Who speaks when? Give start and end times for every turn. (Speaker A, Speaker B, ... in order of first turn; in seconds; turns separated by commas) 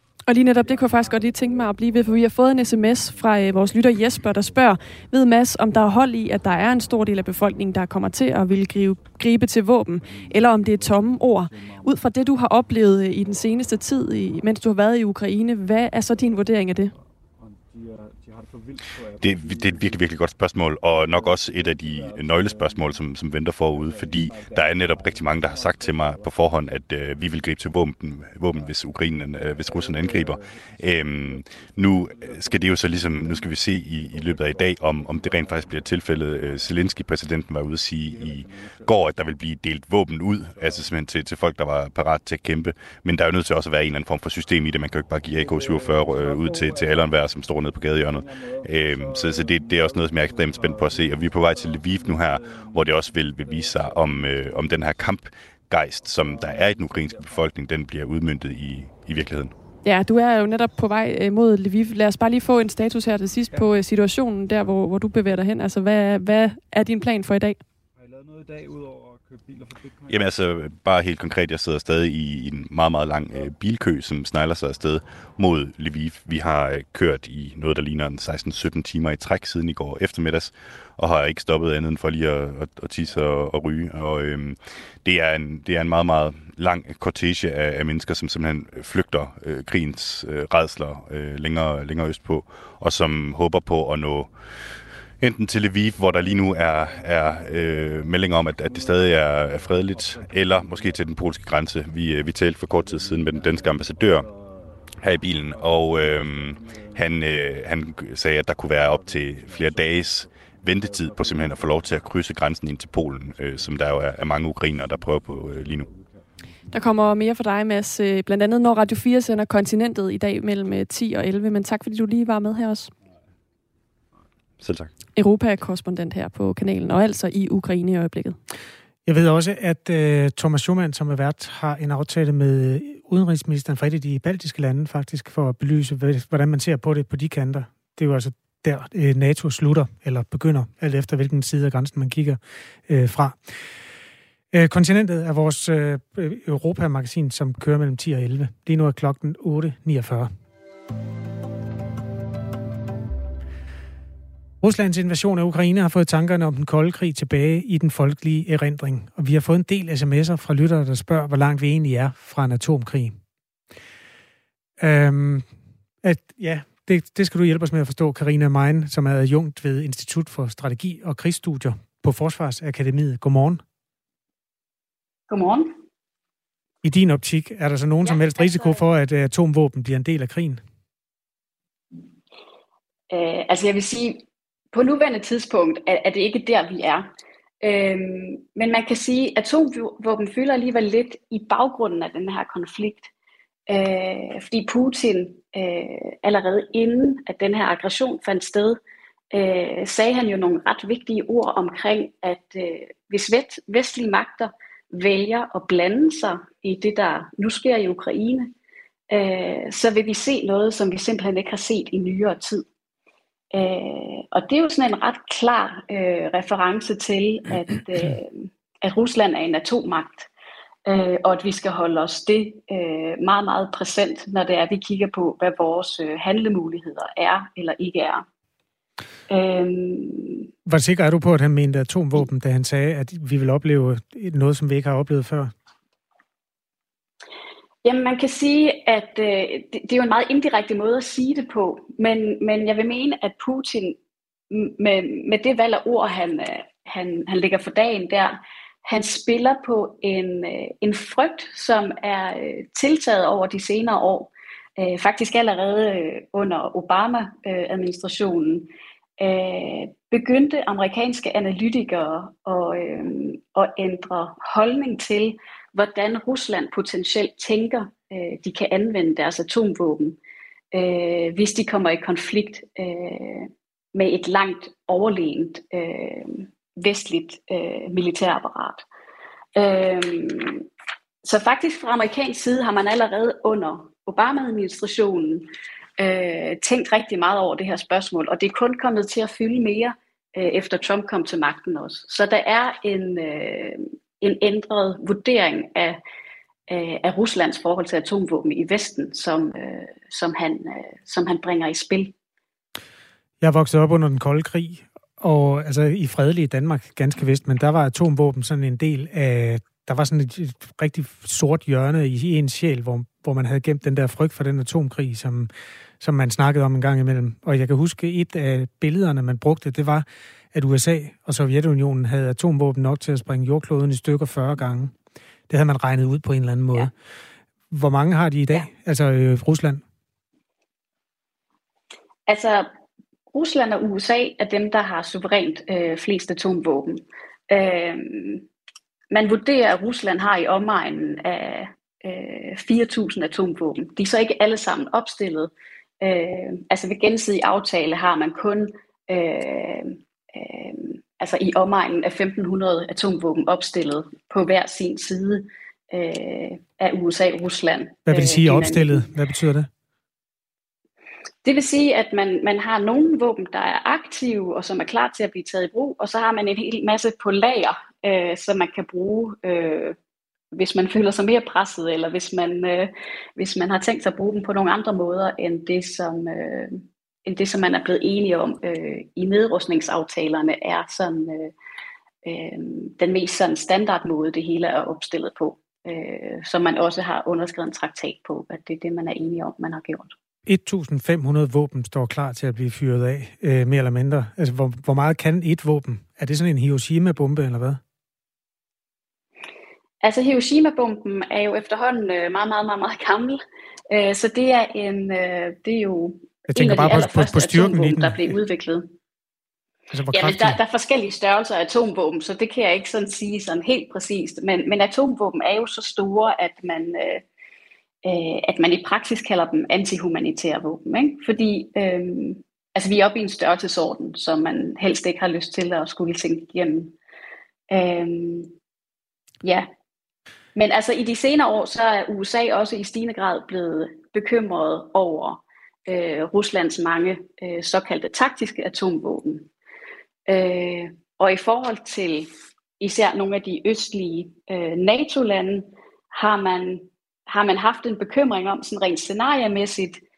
Speaker A: 0.3-16.9, Speaker B: 0.4-5.1, Speaker B: 10.0-12.4, Speaker B: 13.2-13.7, Speaker B: 16.9-20.3, Speaker C: 19.2-59.5, Speaker B: 21.0-27.2, Speaker B: 28.5-37.0, Speaker B: 38.0-39.2, Speaker B: 40.4-41.0, Speaker B: 44.5-55.0, Speaker B: 55.9-57.5, Speaker A: 59.8-67.6, Speaker B: 63.4-63.8, Speaker B: 68.0-70.4, Speaker C: 70.1-94.3, Speaker B: 73.3-73.6, Speaker C: 95.2-104.3, Speaker B: 96.0-101.5, Speaker B: 102.7-107.7, Speaker C: 104.9-115.9, Speaker B: 108.6-112.4, Speaker B: 113.1-117.0, Speaker A: 116.7-122.9, Speaker C: 124.6-124.9, Speaker A: 125.2-128.4, Speaker D: 129.1-143.5, Speaker D: 144.5-150.3, Speaker D: 154.6-163.2, Speaker D: 164.8-165.5, Speaker D: 166.0-173.6, Speaker E: 175.3-175.8, Speaker D: 176.8-180.6, Speaker E: 178.0-178.8, Speaker E: 183.1-187.1, Speaker E: 187.6-193.1, Speaker E: 193.7-198.8, Speaker E: 199.3-208.5, Speaker E: 209.1-212.6, Speaker E: 213.5-220.3, Speaker E: 220.9-228.2, Speaker E: 229.3-230.5, Speaker D: 230.7-235.5, Speaker E: 237.8-244.0, Speaker E: 244.5-258.7, Speaker E: 259.2-270.2, Speaker E: 270.7-278.8, Speaker E: 279.6-280.6, Speaker E: 281.2-296.0, Speaker E: 296.7-302.1, Speaker D: 303.4-324.9, Speaker D: 325.5-326.9, Speaker D: 327.7-329.8, Speaker E: 332.3-332.7, Speaker E: 333.3-338.5, Speaker E: 339.1-359.1, Speaker D: 358.1-359.7, Speaker E: 361.4-370.0, Speaker E: 370.5-381.5, Speaker E: 382.2-390.1, Speaker D: 390.5-397.8, Speaker E: 400.0-408.9, Speaker D: 406.5-408.4, Speaker D: 409.9-410.6, Speaker E: 410.1-417.2, Speaker E: 418.0-426.9, Speaker E: 427.7-428.5, Speaker E: 430.6-439.5, Speaker E: 440.3-450.0